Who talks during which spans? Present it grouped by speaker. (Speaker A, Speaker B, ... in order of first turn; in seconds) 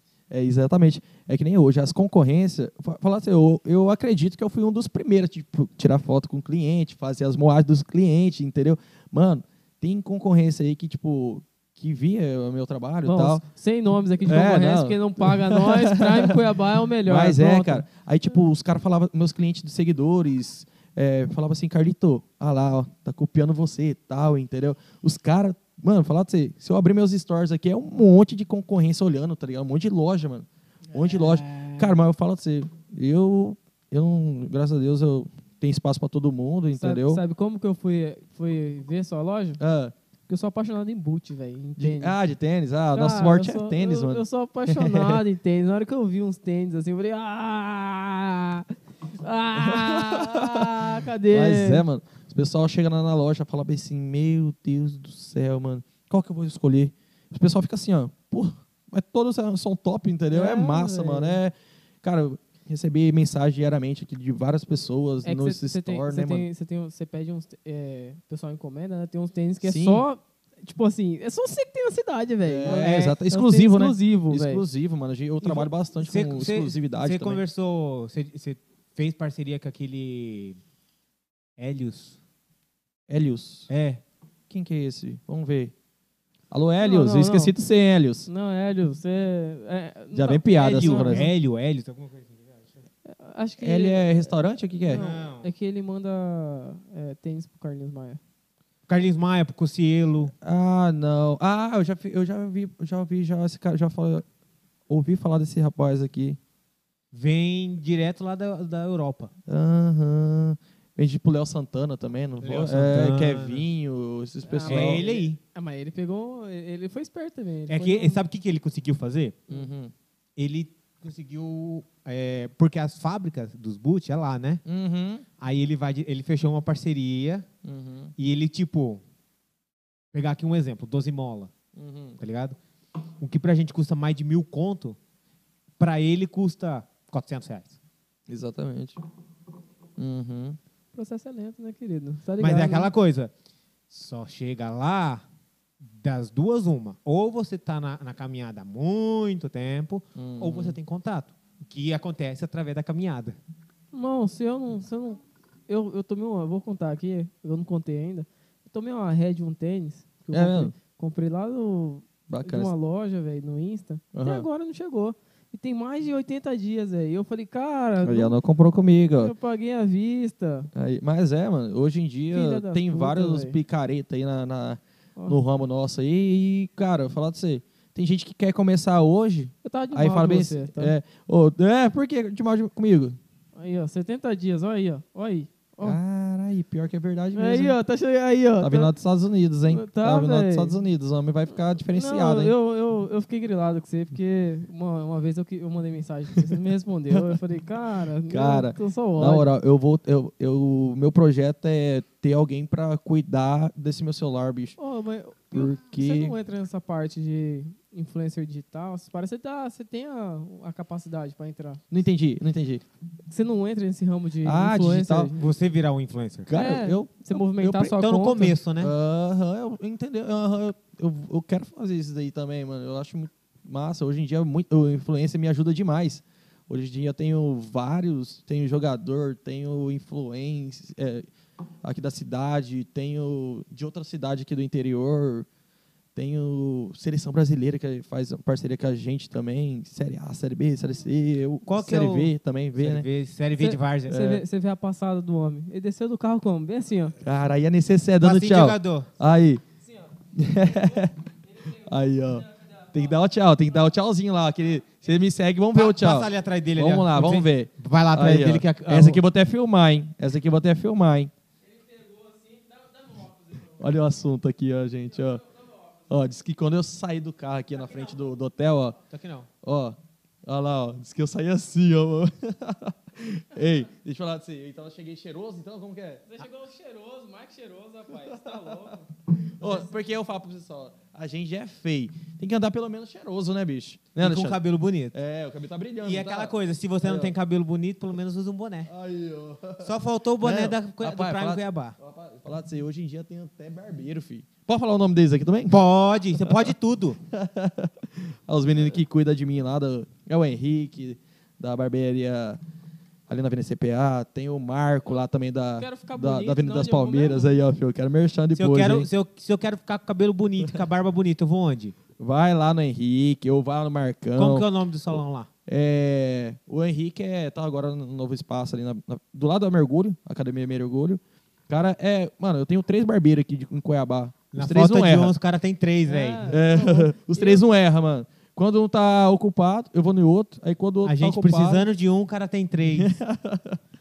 Speaker A: 0.3-13.4, 14.2-16.4, 17.0-37.2, 39.6-39.9, 41.8-45.2, 49.5-66.5, 69.6-70.0, 72.4-77.4, 83.1-83.7, 84.5-85.7, 86.5-88.3, 90.1-91.3, 93.6-95.0, 100.4-104.2, 104.9-106.4, 109.5-115.0, 119.5-119.9, 124.6-125.2, 127.6-128.1, 131.8-132.2, 138.3-139.0, 140.0-140.6, 150.1-150.8, 160.3-160.7, 162.3-162.7, 164.1-164.5, 168.0-169.3, 170.7-183.2, 185.8-187.8, 188.6-192.5, 198.3-204.8, 205.5-206.3, 211.9-212.8, 214.4-215.3, 216.5-218.0, 218.8-231.2, 231.8-235.5, 236.1-243.1, 244.1-244.4, 247.2-249.6, 250.3-251.2, 251.7-261.3, 263.8-265.4, 266.1-269.0, 269.6-276.2, 278.2-284.6, 285.1-287.3, 288.9-295.8, 296.4-296.7, 297.3-302.6, 303.3-309.1, 312.2-314.7, 315.7-325.3, 326.5-331.8, 332.9-333.8
Speaker B: 13.0-17.8, 36.7-39.6, 40.3-42.1, 42.9-51.8, 60.3-61.4, 65.2-74.6, 86.8-87.5, 88.3-91.3, 93.0-94.3, 94.9-98.2, 114.4-118.2, 140.9-142.9, 153.9-168.3, 169.2-170.7, 172.3-173.6, 179.6-180.9, 183.6-186.0, 187.3-188.9, 189.7-190.7, 191.9-199.5, 204.8-211.8, 213.3-215.4, 216.5-218.6, 243.6-247.2, 261.7-263.7, 276.3-279.0, 305.8-307.5, 326.1-327.6
Speaker C: 72.6-73.2, 75.4-80.6, 81.6-82.2, 83.7-84.0, 90.6-92.8, 94.9-95.5, 98.9-100.3, 107.1-109.3, 112.4-113.6, 114.7-115.4, 117.7-119.4, 120.4-124.6, 125.4-127.5, 128.2-129.0, 130.1-131.5, 132.2-132.6, 133.2-135.0, 135.8-137.8, 142.4-143.3, 143.9-145.2, 146.0-153.3, 215.3-216.5, 217.9-218.9, 241.6-244.3, 248.2-249.1, 255.7-259.2, 269.1-269.5, 284.2-285.1, 286.0-288.9, 289.8-291.9, 295.7-297.2, 308.5-311.9, 314.4-315.5, 324.5-326.5, 331.0-333.1